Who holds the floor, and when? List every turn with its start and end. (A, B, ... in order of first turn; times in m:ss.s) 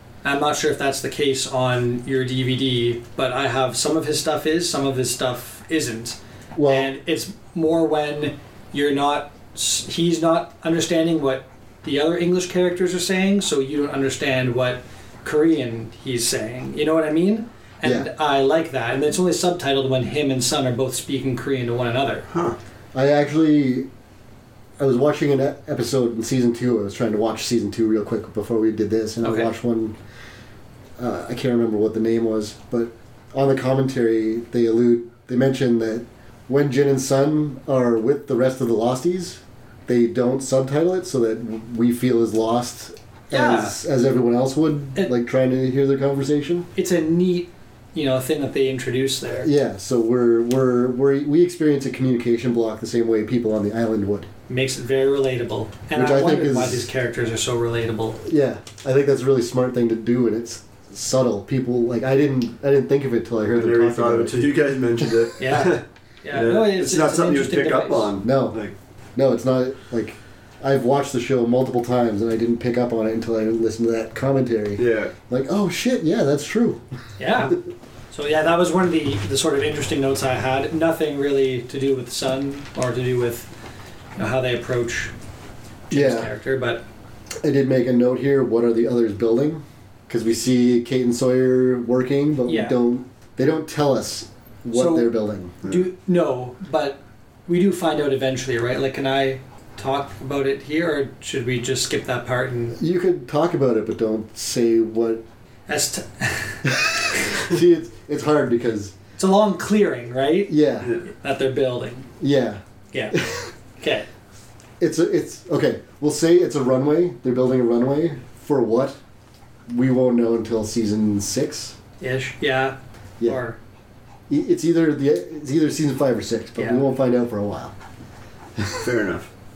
0:00.2-0:22.2 A
0:06.6-0:06.9 B
0:17.8-0:18.1 B
0:22.3-0:22.6 C
0:22.9-0:23.9 B
0:24.8-0:30.0 B
0:29.2-0:29.5 A
0:31.0-0:46.7 B
0:43.3-0:43.8 A
0:46.8-0:49.5 A
0:49.4-0:54.3 B
0:54.5-0:58.2 A
0:55.9-0:56.9 B
0:58.2-1:05.2 B
1:03.5-1:08.7 C
1:05.4-1:08.1 A
1:08.2-1:08.6 B
1:09.2-1:16.8 B
1:14.8-1:15.1 C
1:17.2-1:17.6 A
1:18.1-1:23.5 A
1:24.2-1:25.1 A
1:25.9-1:26.8 A
1:25.9-1:26.3 B
1:27.4-1:35.6 B
1:32.5-1:32.8 A
1:34.7-1:35.1 A
1:35.6-1:42.8 A
1:42.8-1:45.2 B
1:45.7-1:47.2 A
1:46.7-1:49.0 B
1:49.2-1:52.1 A
1:50.5-1:50.9 B
1:52.2-1:53.5 B
1:52.9-1:53.2 A
1:53.8-1:54.1 A
1:54.8-1:59.0 B
1:59.7-2:01.8 B
2:02.0-2:03.6 A
2:04.3-2:07.8 B
2:06.6-2:06.8 A
2:08.7-2:09.3 C